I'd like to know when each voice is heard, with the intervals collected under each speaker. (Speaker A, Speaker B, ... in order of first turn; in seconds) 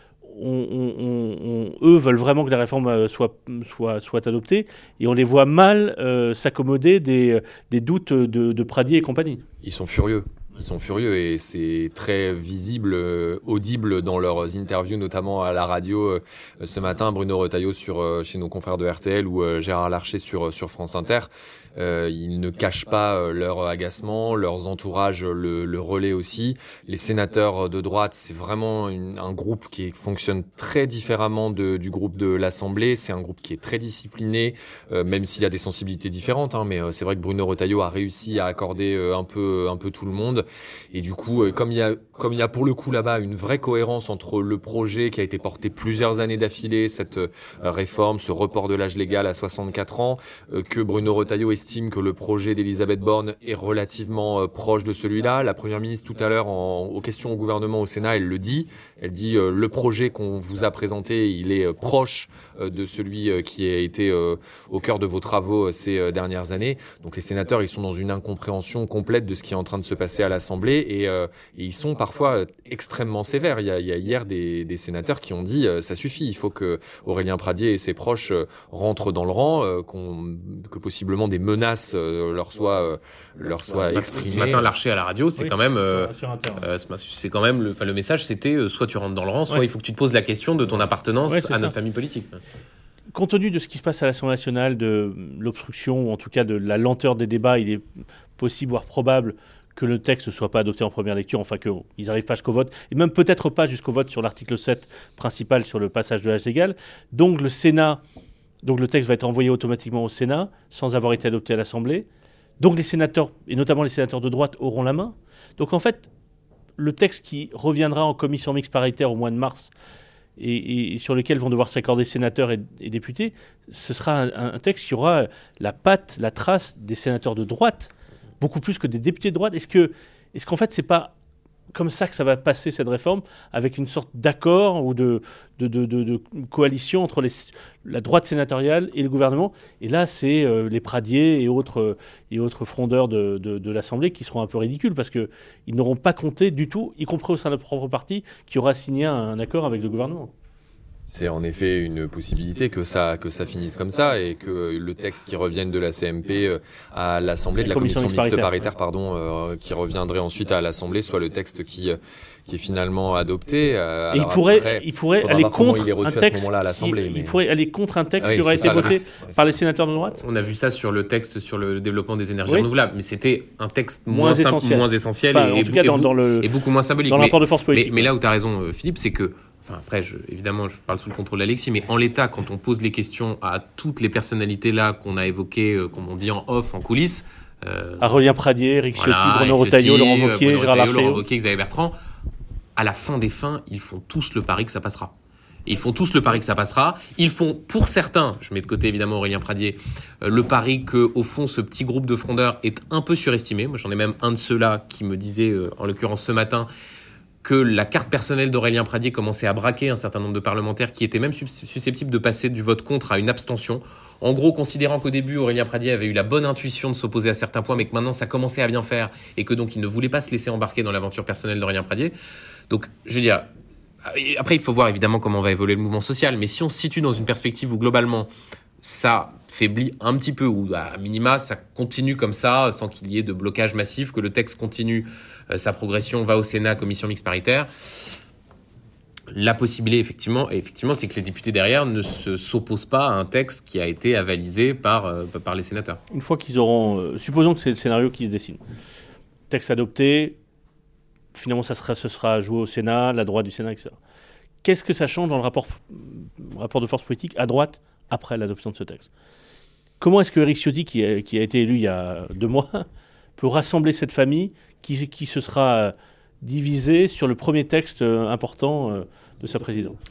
Speaker A: 0.2-9.4, 85.4-86.7, 91.3-91.7, 93.1-97.8, 98.4-108.0, 108.6-112.1, 112.6-116.1, 116.8-119.7, 120.4-131.1, 131.7-150.3, 157.6-158.5, 164.1-170.2, 174.1-176.5, 177.1-178.1, 188.0-191.2, 246.1-248.6, 249.5-250.4, 251.3-254.0, 254.6-259.1, 260.0-270.0
Speaker B: 9.6-84.7, 151.1-167.4, 168.2-169.4
Speaker C: 83.8-92.4, 170.1-188.1, 188.9-192.0, 192.8-195.1, 195.7-206.7, 207.4-222.1, 222.7-223.5, 224.0-228.3, 228.8-238.2, 239.3-246.0